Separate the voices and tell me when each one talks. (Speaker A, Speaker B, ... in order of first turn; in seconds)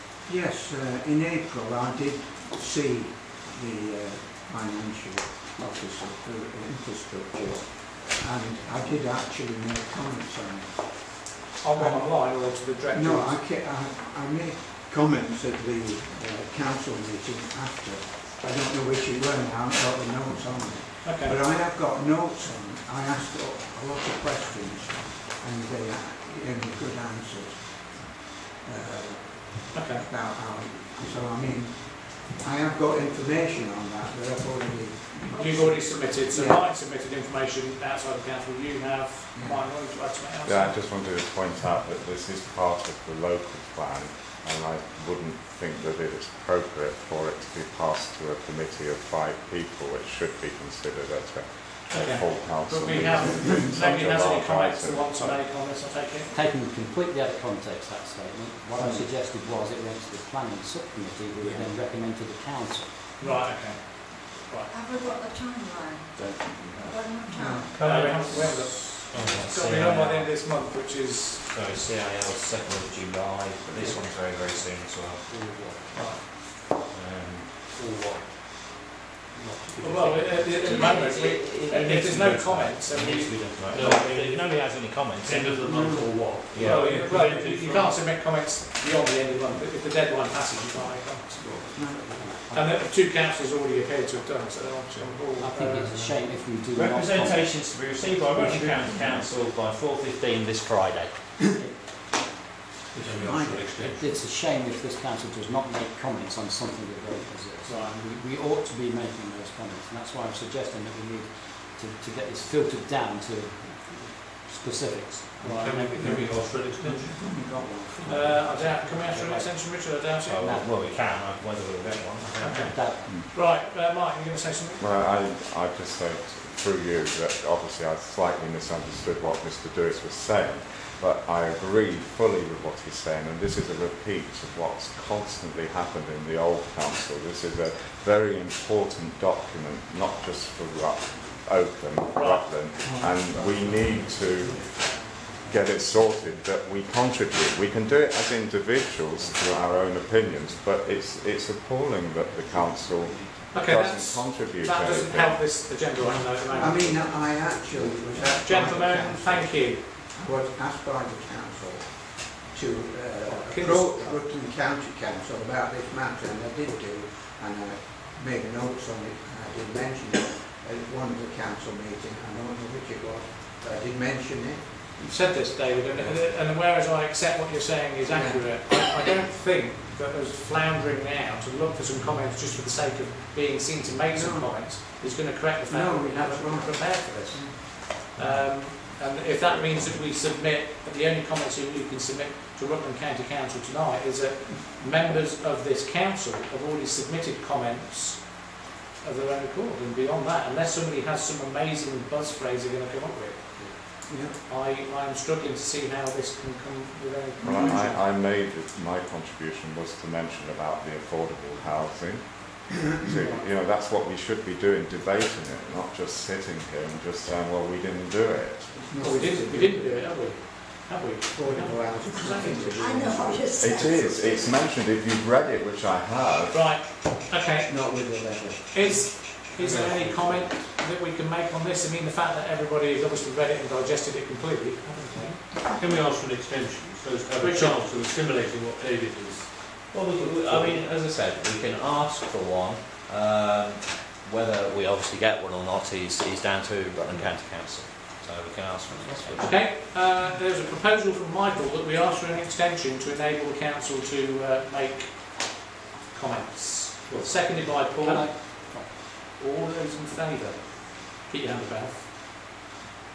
Speaker A: 0.2-36.7, 39.3-39.8, 58.8-59.1, 67.3-67.8, 85.7-86.3, 91.4-92.3, 102.9-103.8, 116.0-119.0, 142.8-145.0, 156.5-174.9, 175.9-176.2, 178.1-178.5, 184.1-184.8, 185.7-187.9, 204.0-204.4, 218.7-220.1, 221.3-224.0, 227.6-230.5
Speaker B: 11.6-13.4, 21.0-21.4, 29.7-30.1, 35.3-40.8, 51.9-56.3, 63.2-64.7, 67.8-71.4, 75.9-76.2, 79.8-83.9, 86.5-91.4, 92.5-96.2, 107.6-108.0, 115.4-115.8, 118.0-120.5, 122.3-124.9, 142.1-142.5, 153.5-157.2, 158.4-159.8, 163.2-164.2, 175.0-208.0, 213.0-213.5, 219.0-223.2, 226.5-227.7, 228.7-235.4, 237.4-237.8, 249.4-262.1
Speaker C: 40.4-55.4, 124.8-155.5, 207.4-218.9, 223.5-226.8
Speaker D: 56.3-62.9, 91.4-92.9, 95.3-97.5, 103.8-116.4, 118.1-119.5, 120.4-120.8, 122.7-123.1, 157.7-158.3, 248.9-249.7, 257.1-258.9
Speaker E: 64.7-67.8, 222.7-224.6
Speaker F: 67.7-70.4, 71.4-75.8, 76.7-77.7, 79.3-85.6, 86.5-86.9, 96.7-101.1, 120.2-122.8, 188.2-188.4, 239.8-249.6
Speaker G: 75.2-75.8, 77.7-78.3, 83.6-88.0, 98.4-98.7, 102.9-104.1, 115.4-117.2, 235.6-240.8